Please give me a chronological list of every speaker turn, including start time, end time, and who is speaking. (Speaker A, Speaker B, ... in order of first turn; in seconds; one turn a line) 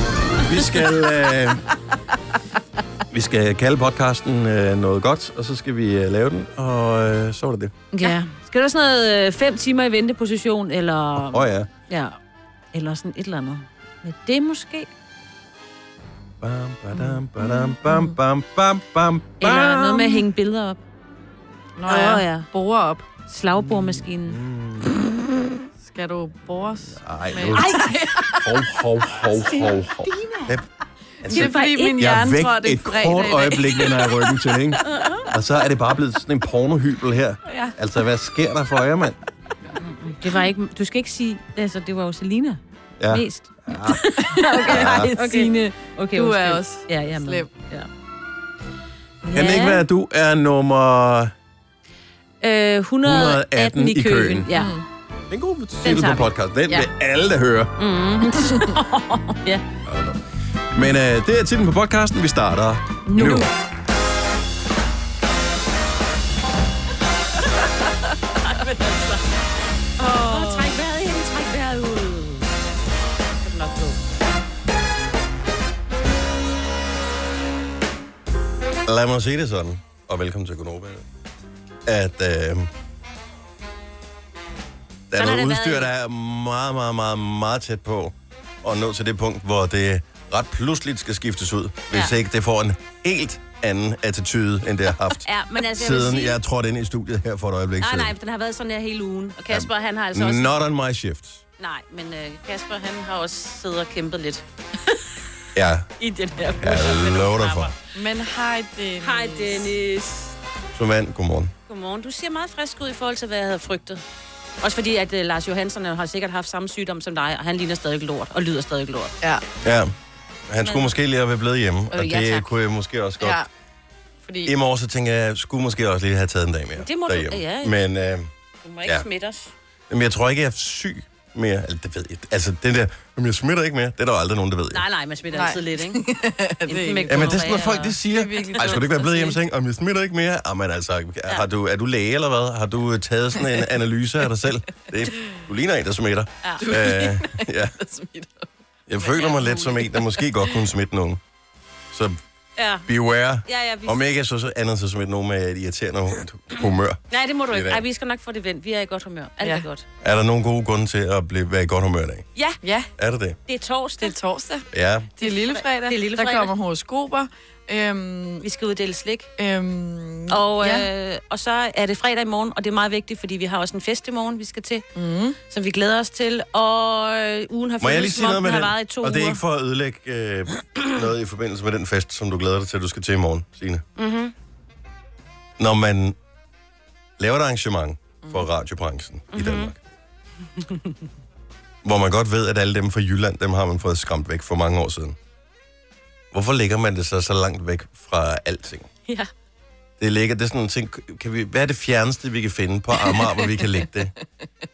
Speaker A: 0.4-1.6
Speaker A: 3.1-7.7
Speaker B: 7.9-12.2
Speaker A: 11.2-11.7
Speaker B: 12.7-14.9
Speaker A: 16.4-20.2
Speaker C: 17.9-18.1
Speaker B: 19.4-20.8
Speaker C: 21.8-23.1
Speaker B: 21.9-22.5
Speaker B: 23.3-24.4
Speaker A: 23.6-24.9
Speaker C: 25.8-28.5
Speaker A: 26.9-30.6
Speaker A: 31.2-39.1
Speaker C: 31.2-34.1
Speaker B: 31.3-32.0
Speaker B: 39.8-47.9
Speaker A: 43.0-44.0
Speaker C: 44.3-47.5
Speaker A: 44.6-45.1
Speaker B: 49.2-49.8
Speaker A: 49.3-51.3
Speaker B: 52.4-54.7
Speaker A: 53.0-54.5
Speaker C: 54.5-54.9
Speaker A: 55.3-57.7
Speaker B: 55.8-56.3
Speaker B: 57.8-59.6
Speaker A: 59.8-63.5
Speaker C: 63.1-63.5
Speaker B: 68.4-69.2
Speaker B: 70.0-72.5
Speaker B: 73.4-74.0
Speaker A: 78.8-81.0
Speaker A: 81.8-82.7
Speaker A: 85.1-98.1
Speaker B: 85.1-85.9
Speaker B: 95.2-96.4
Speaker B: 97.8-100.5
Speaker A: 99.5-101.4
Speaker B: 101.6-104.4
Speaker A: 105.5-105.9
Speaker B: 106.0-107.7
Speaker A: 106.6-107.7
Speaker C: 107.9-109.7
Speaker B: 109.0-110.3
Speaker A: 110.7-111.5
Speaker B: 111.7-114.0
Speaker B: 114.6-119.1
Speaker A: 119.6-119.9
Speaker A: 120.5-123.4
Speaker B: 120.6-120.9
Speaker B: 121.9-122.5
Speaker C: 123.2-123.5
Speaker C: 124.2-124.5
Speaker A: 124.4-128.3
Speaker B: 126.8-127.8
Speaker B: 128.6-129.5
Speaker A: 129.9-134.8
Speaker B: 134.7-136.0
Speaker C: 135.3-137.4
Speaker B: 136.7-139.3
Speaker A: 137.1-147.7
Speaker C: 138.0-139.0
Speaker C: 146.6-148.5
Speaker A: 148.9-151.2
Speaker B: 149.1-150.0
Speaker A: 151.9-152.2
Speaker B: 152.6-152.9
Speaker A: 152.9-157.8
Speaker B: 153.4-154.0
Speaker B: 157.1-159.8
Speaker C: 159.4-159.7
Speaker A: 160.0-162.3
Speaker C: 162.6-162.9
Speaker A: 163.0-163.4
Speaker B: 163.5-164.1
Speaker C: 164.0-168.4
Speaker A: 164.7-165.1
Speaker B: 165.2-166.5
Speaker B: 168.4-169.3
Speaker C: 169.4-170.9
Speaker B: 170.3-174.8
Speaker C: 174.9-175.4
Speaker B: 175.5-179.4
Speaker A: 177.8-183.8
Speaker B: 184.0-184.3
Speaker A: 185.6-186.2
Speaker A: 187.2-189.8
Speaker B: 189.3-189.7
Speaker B: 190.6-190.9
Speaker A: 191.8-195.2
Speaker A: 196.3-198.9
Speaker A: 200.0-204.1